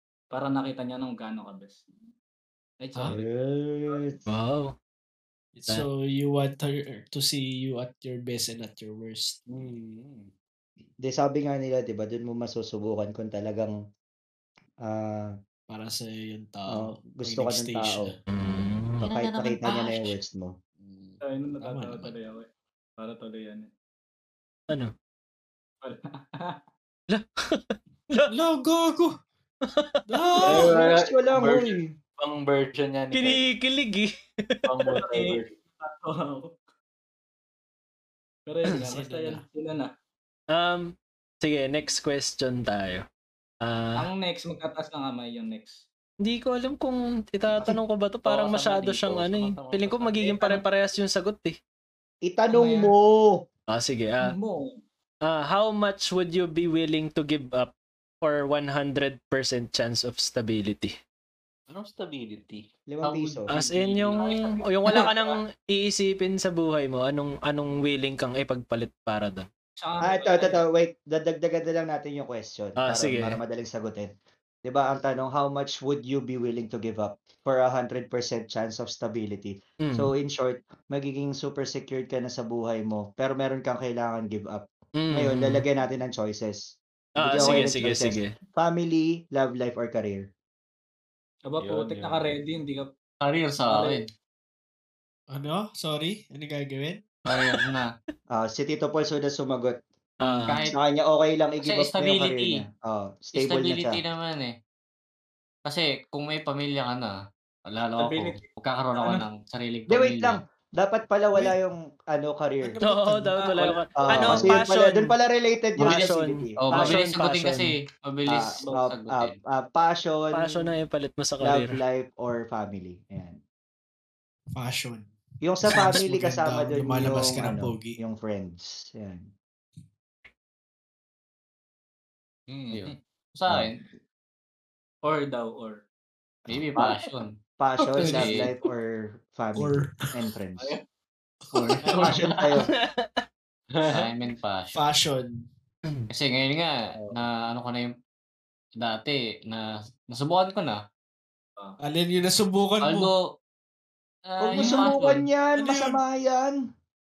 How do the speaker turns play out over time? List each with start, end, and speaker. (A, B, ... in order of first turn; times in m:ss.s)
0:00.3-0:01.9 A
0:02.8-0:03.2 A
0:03.1-0:04.3 B
0:04.3-0:04.7 C
0:05.5-0:09.4 D
0:09.5-0:10.3 E
0:11.0-0:13.7 B
0:14.8-0:15.3 B
0:15.7-0:18.6 D
0:16.7-0:18.1 B
0:18.3-0:19.0 C
0:19.0-0:20.1 F
0:19.0-0:20.6 B
0:20.8-0:22.1 D
0:21.2-0:22.5 A
0:23.0-0:23.7 A
0:25.8-0:26.6 A
0:27.1-0:28.3 C
0:28.3-0:29.1 D
0:29.7-0:30.0 C
0:30.1-0:30.7 D
0:30.4-0:33.4 E
0:30.5-0:31.9 B
0:33.1-0:34.9 C
0:34.7-0:35.6 E
0:35.0-0:36.6 A
0:38.5-0:39.9 A
0:38.8-0:39.4 D
0:40.5-0:40.9 C
0:41.4-0:43.0 C
0:43.6-0:44.1 C
0:43.9-0:45.8 A
0:46.2-0:51.6 C
0:48.2-0:50.3 E
0:50.3-0:50.6 A
0:52.3-0:53.4 B
0:52.5-0:52.9 A
0:53.7-0:54.3 C
0:54.2-0:54.8 A
0:55.3-1:00.9 C
1:01.7-1:02.6 E
1:02.9-1:03.5 B
1:03.0-1:03.8 F
1:03.5-1:09.4 C
1:04.1-1:05.4 E
1:09.8-1:10.6 A
1:10.0-1:14.1 B
1:12.8-1:13.4 C
1:14.6-1:30.3 B
1:19.8-1:20.1 C
1:25.0-1:25.6 C
1:27.2-1:28.3 C
1:31.5-1:32.9 A
1:31.6-1:32.3 E
1:33.2-1:34.0 F
1:33.6-1:34.0 A
1:35.3-1:37.0 D
1:37.3-1:37.9 F
1:38.3-1:39.8 B
1:40.2-1:40.7 C
1:40.4-1:40.8 F
1:40.6-1:44.0 B
1:41.6-1:42.6 F
1:43.3-1:44.5 F
1:45.7-1:47.1 F
1:47.7-1:50.4 F
1:48.0-1:49.2 A
1:49.9-1:52.8 B
1:52.7-1:53.3 D
1:52.8-1:55.1 C
1:53.3-1:54.3 A
1:54.0-1:57.0 B
1:55.8-1:57.7 C
1:56.6-1:59.3 F
1:58.3-2:00.7 B
2:00.3-2:01.8 C
2:01.4-2:03.4 B
2:04.6-2:05.1 D
2:05.4-2:09.3 B
2:05.6-2:08.0 D
2:12.5-2:13.0 E
2:12.7-2:13.8 F
2:15.0-2:15.8 A
2:16.5-2:17.3 F
2:17.6-2:20.7 B
2:18.0-2:18.5 D
2:18.0-2:18.4 F
2:19.6-2:20.1 D
2:21.5-2:22.2 D
2:21.5-2:22.3 F
2:21.9-2:22.2 A
2:21.9-2:22.7 B
2:22.7-2:23.2 C
2:23.7-2:24.1 E
2:23.9-2:24.8 F
2:24.7-2:25.4 D
2:26.1-2:27.9 F
2:28.8-2:30.8 F
2:31.8-2:33.1 D
2:32.8-2:33.2 F
2:34.3-2:35.2 F
2:34.4-2:36.6 B
2:34.6-2:34.9 D
2:35.6-2:36.0 D